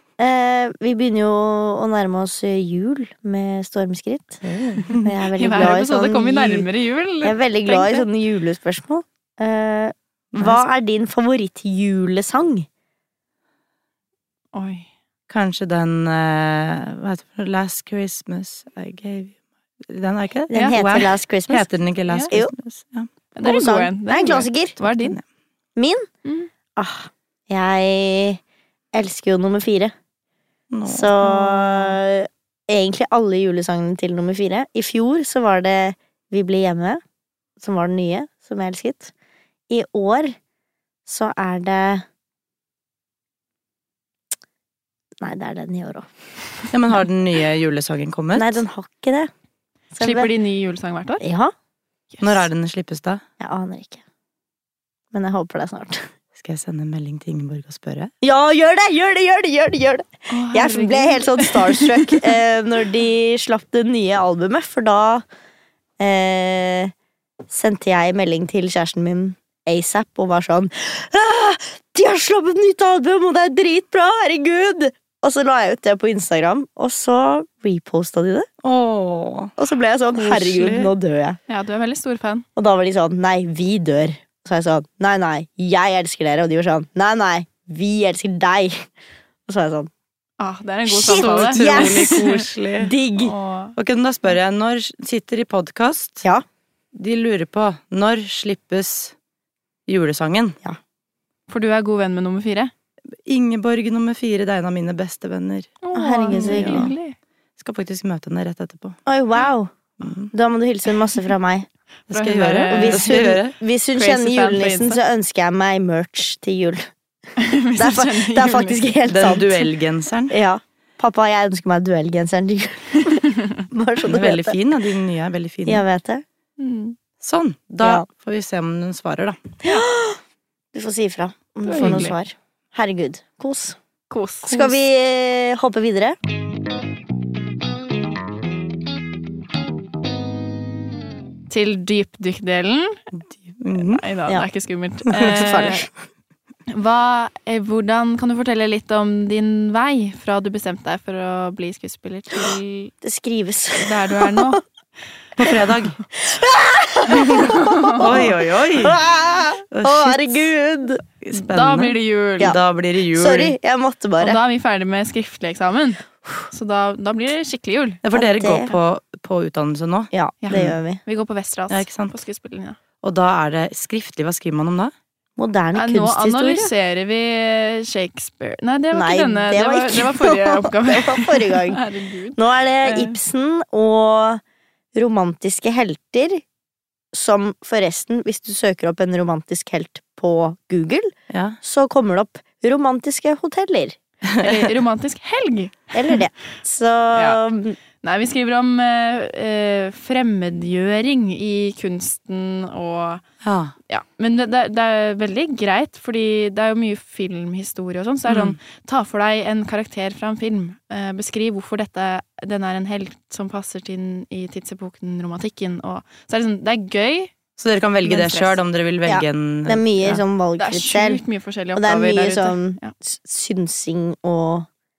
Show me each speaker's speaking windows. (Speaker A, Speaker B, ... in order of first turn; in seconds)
Speaker A: 0.2-6.7, 7.2-12.7, 20.5-21.7, 23.4-24.8, 25.8-26.1, 26.8-28.4, 28.9-29.9, 30.9-37.0, 37.6-39.1, 39.7-40.4, 41.1-42.0, 45.2-46.1, 48.4-49.3, 50.0-50.3, 51.2-51.5, 53.4-54.0, 55.1-56.1, 58.2-65.2, 66.0-66.9, 67.5-78.5, 79.6-81.4, 82.6-88.9, 89.5-89.9, 90.9-93.3, 105.9-106.9, 109.1-109.7, 110.3-111.7, 112.7-116.9, 117.8-119.6, 120.3-124.6, 125.7-126.2, 127.8-128.1, 129.6-130.2, 130.7-133.8, 134.4-136.2, 145.2-145.9, 153.0-154.6, 156.2-161.0, 163.1-164.4, 168.1-168.8, 170.1-171.0, 175.4-176.7, 178.9-181.8, 182.4-184.4, 184.9-186.4, 187.1-194.0, 195.9-197.8, 219.1-221.2, 221.8-224.7
Speaker B: 4.5-5.0, 10.3-10.6, 15.3-23.1, 24.9-25.2, 30.7-31.1, 46.7-48.6, 52.2-53.2, 56.4-58.1, 78.6-79.5, 91.2-92.9, 93.8-96.2, 96.9-99.2, 99.9-100.6, 103.3-105.8, 106.3-107.0, 107.6-109.0, 110.0-110.3, 112.1-113.5, 119.1-120.3, 124.0-125.8, 127.2-129.4, 131.8-132.1, 143.1-144.0, 155.4-156.0, 157.1-159.0, 159.7-160.5, 161.2-163.6, 168.0-170.8, 171.7-172.2, 173.0-174.9, 191.3-191.6, 194.2-194.7, 203.4-203.7, 208.3-208.6, 217.6-220.2
Speaker C: 5.4-8.1, 14.5-14.9, 20.5-20.8, 23.4-25.2, 26.2-26.5, 31.2-32.0, 50.0-51.2, 52.1-52.5, 60.3-62.2, 80.2-80.9, 81.5-82.5, 90.4-92.4, 93.2-93.8, 101.5-102.7, 105.8-107.2, 112.1-113.2, 113.9-115.0, 117.4-118.8, 126.6-127.0, 131.7-132.1, 134.1-134.8, 141.5-143.0, 143.8-145.9, 146.7-152.9, 153.8-154.6, 157.5-158.2, 161.4-162.6, 164.2-168.0, 170.4-172.8, 175.8-183.2, 194.4-196.2, 197.1-197.4, 198.0-203.2, 203.9-217.3, 218.0-218.6, 220.6-222.9